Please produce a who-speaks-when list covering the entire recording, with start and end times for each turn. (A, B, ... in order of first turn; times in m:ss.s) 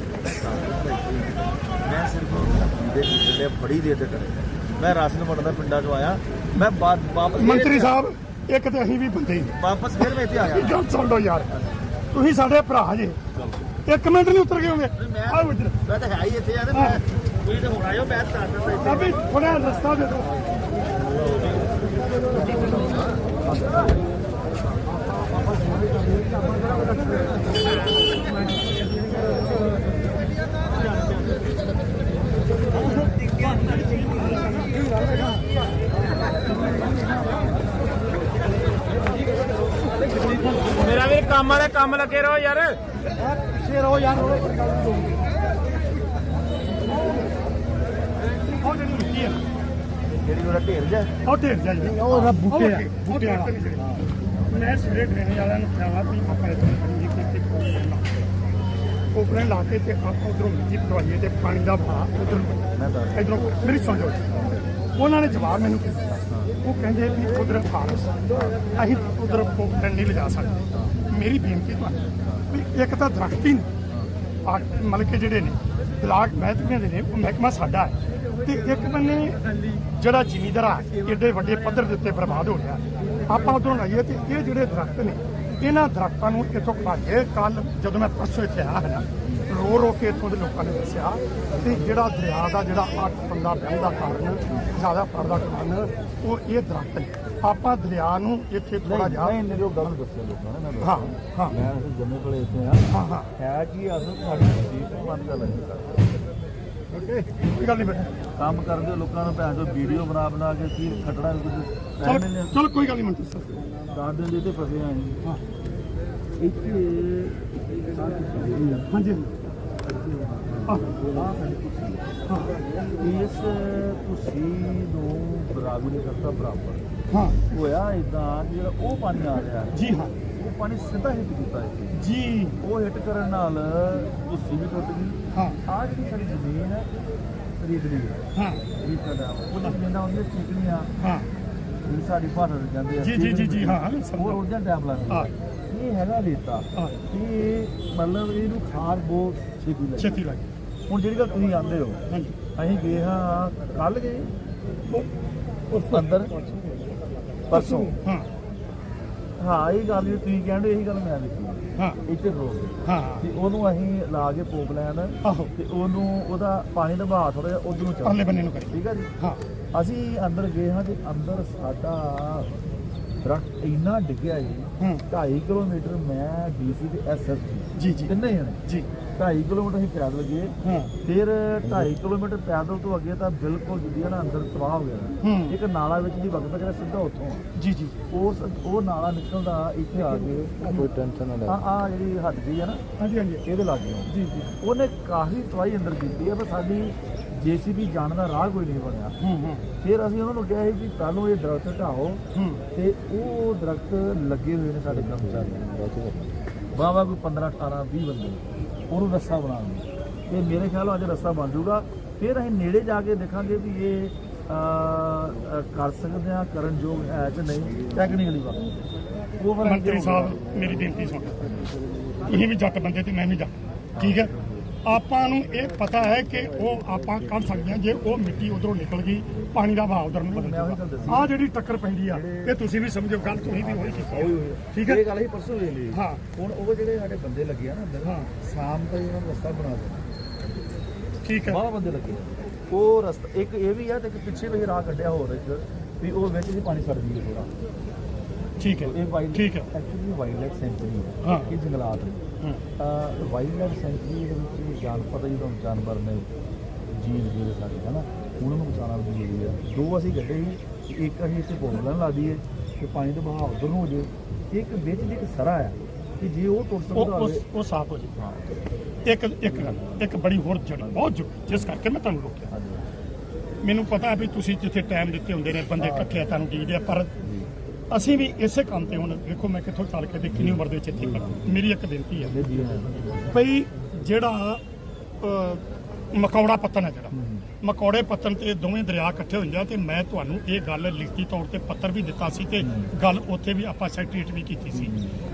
0:00.2-0:08.0 A
0:07.4-0:11.5 B
0:09.5-0:10.8 A
0:11.5-0:11.8 A
0:12.1-0:13.2 B
0:13.3-0:13.6 A
0:13.8-0:15.8 B
0:15.0-0:19.2 A
0:16.7-0:17.0 B
0:18.7-0:20.3 B
0:21.2-0:21.7 A
0:22.3-0:23.9 A
0:40.8-0:42.8 C
0:43.7-0:44.6 D
0:48.6-0:49.4 B
0:50.2-0:51.1 A
0:51.2-0:54.0 B
0:52.0-0:53.2 D
0:52.0-0:52.4 A
0:53.7-0:54.7 A
0:54.5-0:58.2 B
0:59.1-1:02.6 B
1:02.7-1:03.5 A
1:03.1-1:04.3 B
1:04.3-1:04.7 A
1:04.9-1:06.0 B
1:06.1-1:06.5 A
1:06.6-1:13.7 B
1:10.7-1:11.0 A
1:12.2-1:12.5 A
1:13.9-1:14.1 A
1:14.4-1:39.4 B
1:31.5-1:32.0 A
1:38.8-1:46.0 A
1:40.8-1:41.5 B
1:42.9-1:43.3 B
1:47.5-1:48.0 B
1:48.4-1:52.6 A
1:52.0-1:53.6 B
1:53.9-1:55.2 A
1:56.4-1:58.9 A
1:58.9-1:59.3 B
1:59.9-2:02.1 A
2:02.3-2:02.6 B
2:03.0-2:06.8 A
2:07.1-2:07.4 B
2:07.5-2:12.0 A
2:09.7-2:10.1 B
2:11.9-2:12.6 B
2:12.6-2:16.9 A
2:17.6-2:18.2 A
2:18.4-2:18.6 B
2:18.8-2:20.9 A
2:21.0-2:21.3 B
2:21.8-2:30.1 A
2:23.0-2:24.4 B
2:30.0-2:30.4 B
2:30.9-2:32.0 A
2:32.1-2:32.4 B
2:32.5-2:34.3 A
2:35.7-2:36.8 B
2:35.9-2:36.3 A
2:37.5-2:38.0 A
2:37.5-2:38.3 B
2:39.4-2:49.1 A
2:41.8-2:42.0 B
2:42.8-2:43.3 B
2:45.2-2:45.5 B
2:48.0-2:49.4 B
2:49.7-2:52.5 A
2:53.2-2:58.6 A
2:57.8-2:58.1 B
2:59.1-3:07.5 A
3:00.6-3:00.9 B
3:05.2-3:05.5 B
3:07.6-3:07.9 B
3:08.1-3:10.5 A
3:10.6-3:11.6 D
3:10.6-3:10.9 B
3:11.4-3:12.8 A
3:13.0-3:13.4 B
3:13.4-3:19.2 A
3:19.2-3:19.6 B
3:19.8-3:22.2 A
3:22.3-3:22.6 B
3:22.7-3:25.6 A
3:24.9-3:26.3 D
3:26.7-3:38.6 A
3:39.4-3:40.7 A
3:39.6-3:41.4 B
3:41.4-3:41.7 A
3:42.3-3:44.3 B
3:44.0-3:44.7 A
3:44.8-3:55.0 B
3:50.2-3:51.3 A
3:52.0-3:52.6 A
3:53.2-4:00.0 A
3:55.9-3:56.2 B
3:58.0-3:58.3 B
4:01.2-4:01.6 B
4:01.4-4:07.5 A
4:08.6-4:09.7 B
4:08.8-4:12.2 A
4:11.2-4:11.5 B
4:12.8-4:16.3 A
4:16.9-4:27.4 A
4:26.9-4:28.1 B
4:28.1-4:28.6 A
4:29.0-4:32.5 B
4:29.4-4:30.0 A
4:32.5-4:32.8 A
4:33.6-4:37.1 B
4:35.8-4:36.2 A
4:37.2-4:37.5 A
4:37.9-4:42.4 B
4:40.3-4:40.6 A
4:42.2-4:43.4 A
4:43.3-4:44.6 B
4:45.2-4:54.9 B
4:47.1-4:47.4 A
4:52.6-4:52.9 A
4:54.7-4:55.2 A